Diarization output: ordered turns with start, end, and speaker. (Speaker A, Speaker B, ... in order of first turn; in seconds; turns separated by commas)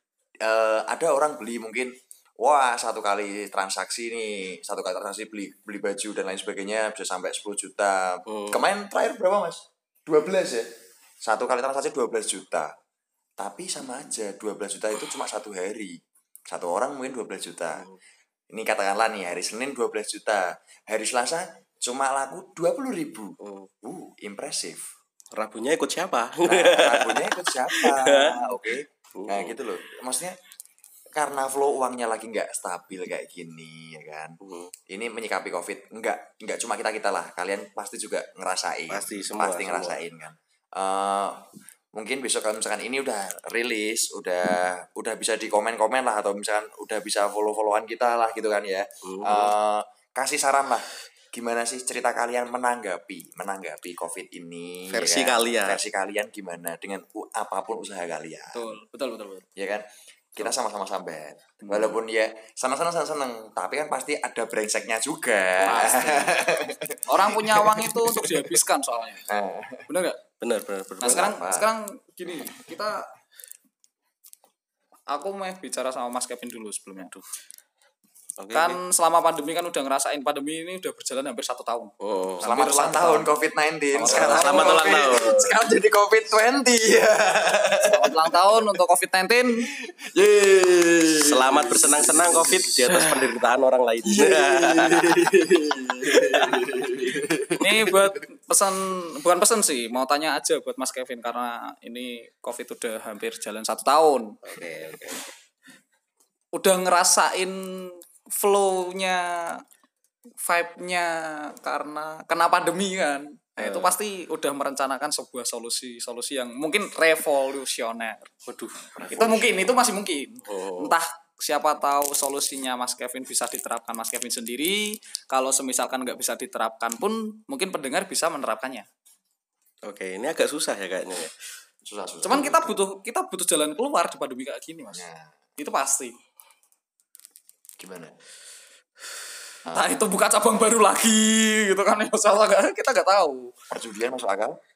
Speaker A: 0.4-10.7, Speaker B: 8.3-8.6, Speaker A: 11.2-12.7, Speaker A: 13.4-16.0, Speaker A: 16.5-17.9, Speaker A: 18.5-24.8, Speaker B: 23.4-23.7, Speaker B: 25.4-28.4, Speaker A: 26.4-30.4, Speaker B: 29.2-29.6, Speaker A: 31.2-41.4, Speaker B: 34.4-34.7, Speaker B: 38.9-40.0, Speaker A: 42.0-58.8, Speaker B: 49.0-49.5, Speaker B: 54.9-55.8, Speaker C: 58.5-59.5, Speaker A: 59.6-68.3, Speaker C: 65.6-66.4, Speaker C: 67.1-69.2, Speaker A: 69.3-69.9, Speaker C: 69.9-70.2, Speaker B: 70.4-71.3, Speaker C: 71.0-73.1, Speaker A: 71.0-71.7, Speaker A: 72.3-72.7, Speaker C: 75.1-77.1, Speaker B: 78.4-78.8, Speaker C: 78.5-83.3, Speaker B: 82.0-82.5, Speaker A: 82.4-88.7, Speaker C: 83.9-85.2, Speaker B: 84.0-85.6, Speaker C: 87.9-89.7, Speaker A: 89.6-93.4, Speaker B: 91.2-95.3, Speaker A: 94.0-98.2, Speaker C: 97.6-104.3, Speaker B: 104.5-105.2, Speaker C: 106.5-109.6, Speaker C: 110.4-118.3, Speaker B: 113.6-113.9, Speaker B: 118.5-119.0, Speaker A: 119.0-119.8, Speaker C: 119.1-128.9, Speaker B: 120.5-121.0, Speaker B: 129.9-131.3, Speaker A: 131.8-132.8, Speaker C: 132.2-135.1, Speaker A: 134.9-135.3, Speaker C: 135.6-136.2, Speaker A: 137.8-138.1, Speaker A: 139.7-140.0, Speaker C: 139.7-143.5, Speaker A: 143.7-144.6